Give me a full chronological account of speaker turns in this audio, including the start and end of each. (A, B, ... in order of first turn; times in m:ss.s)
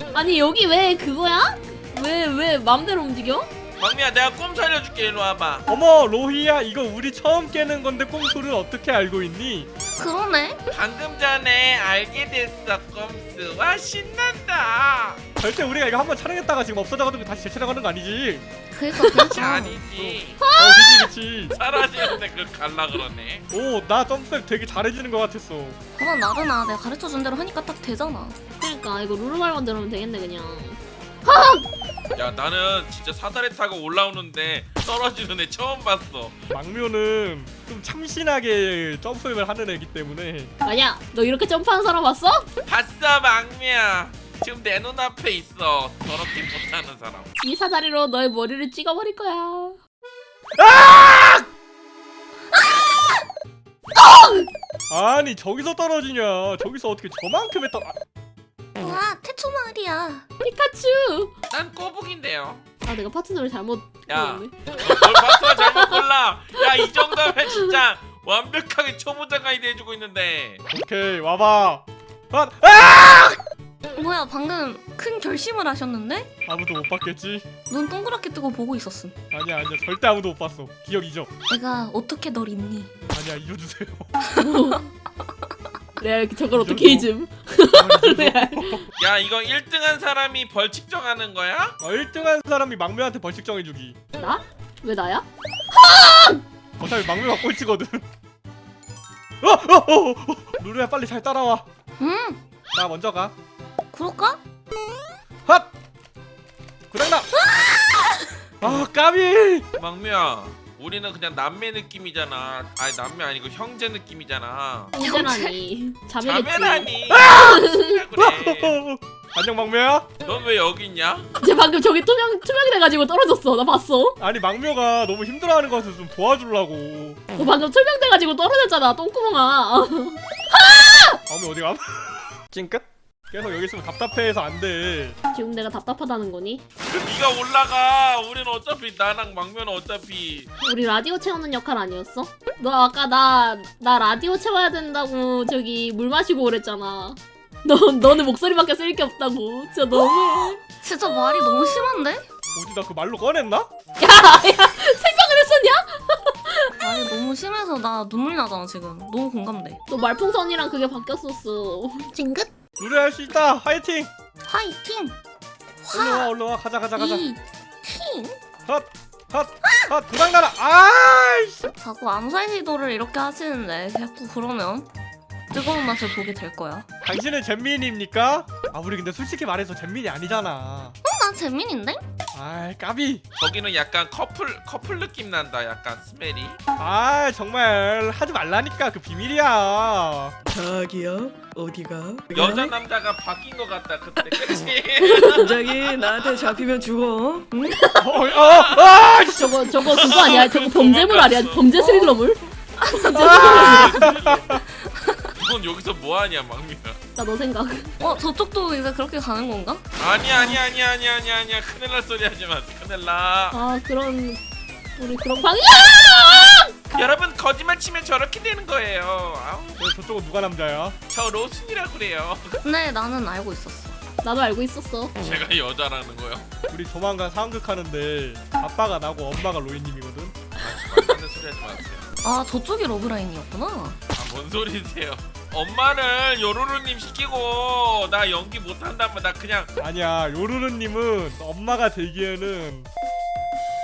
0:00.1-0:03.5 A
0:03.8-0:05.7 B
0:05.7-0:09.7 C
0:10.0-0:10.6 D
0:10.7-0:15.2 B
0:15.4-0:18.5 C
0:18.7-0:19.8 D
0:19.0-0:19.3 A
0:19.3-0:20.4 B
0:19.9-0:21.6 C
0:20.4-0:21.1 A
0:21.5-0:23.5 B
0:23.5-0:25.8 C
0:26.0-0:28.4 D
0:28.6-0:31.7 A
0:32.2-0:36.4 B
0:36.5-0:40.5 C
0:40.6-0:42.5 A
0:42.7-0:47.3 B
0:47.4-0:49.8 A
0:50.6-0:51.5 C
0:54.0-0:54.5 A
0:54.9-0:58.0 C
0:58.8-1:00.2 D
1:00.4-1:01.3 A
1:01.5-1:02.6 B
1:02.8-1:05.9 A
1:04.1-1:10.6 B
1:10.7-1:13.4 C
1:13.9-1:16.3 D
1:16.5-1:17.5 C
1:17.7-1:19.2 D
1:19.3-1:21.3 C
1:21.5-1:22.9 D
1:23.1-1:24.1 C
1:24.2-1:24.8 D
1:24.4-1:24.8 A
1:26.0-1:28.8 A
1:26.5-1:27.1 C
1:27.7-1:28.9 C
1:29.0-1:31.8 B
1:31.8-1:34.0 C
1:34.2-1:36.4 A
1:36.8-1:38.0 C
1:39.4-1:41.6 C
1:42.0-1:42.4 D
1:42.7-1:43.3 C
1:43.9-1:44.4 D
1:45.5-1:45.7 C
1:46.9-1:47.4 C
1:47.4-1:48.3 D
1:48.6-1:49.7 C
1:49.8-1:55.0 B
1:54.9-1:58.0 A
1:55.0-1:55.6 D
1:56.2-1:58.8 B
1:57.1-1:57.6 C
1:58.2-2:00.1 C
2:00.2-2:01.3 B
2:01.4-2:04.2 A
2:04.2-2:07.2 C
2:07.3-2:11.2 A
2:11.3-2:15.2 C
2:15.3-2:16.6 A
2:16.9-2:20.5 B
2:20.6-2:30.6 A
2:30.0-2:32.3 D
2:32.5-2:33.7 C
2:34.0-2:36.7 A
2:36.8-2:39.8 D
2:39.9-2:42.1 A
2:42.1-2:42.5 D
2:42.8-2:44.1 C
2:44.4-2:45.2 D
2:45.8-2:46.3 D
2:45.9-2:47.3 C
2:47.0-2:48.4 D
2:48.7-2:51.7 C
2:51.8-2:54.9 D
2:55.5-2:56.9 D
2:57.0-3:01.0 C
3:01.1-3:02.0 D
3:02.3-3:03.2 C
3:03.4-3:06.6 B
3:06.8-3:10.4 C
3:10.5-3:12.7 E
3:12.3-3:15.5 B
3:15.0-3:17.8 E
3:17.7-3:18.0 A
3:18.0-3:19.7 C
3:18.2-3:19.1 B
3:19.3-3:24.0 A
3:19.8-3:21.7 B
3:21.7-3:25.3 D
3:23.1-3:24.6 C
3:23.3-3:24.5 B
3:25.4-3:27.0 B
3:27.2-3:28.0 A
3:28.0-3:29.8 D
3:30.0-3:33.6 B
3:33.5-3:34.4 A
3:35.0-3:36.8 A
3:36.9-3:39.8 B
3:39.8-3:41.0 C
3:41.1-3:42.6 B
3:42.6-3:44.0 D
3:44.2-3:45.2 A
3:45.2-3:46.5 B
3:46.7-3:50.4 C
3:50.6-3:52.2 B
3:52.2-3:54.0 D
3:54.1-3:59.7 B
3:59.8-4:02.9 C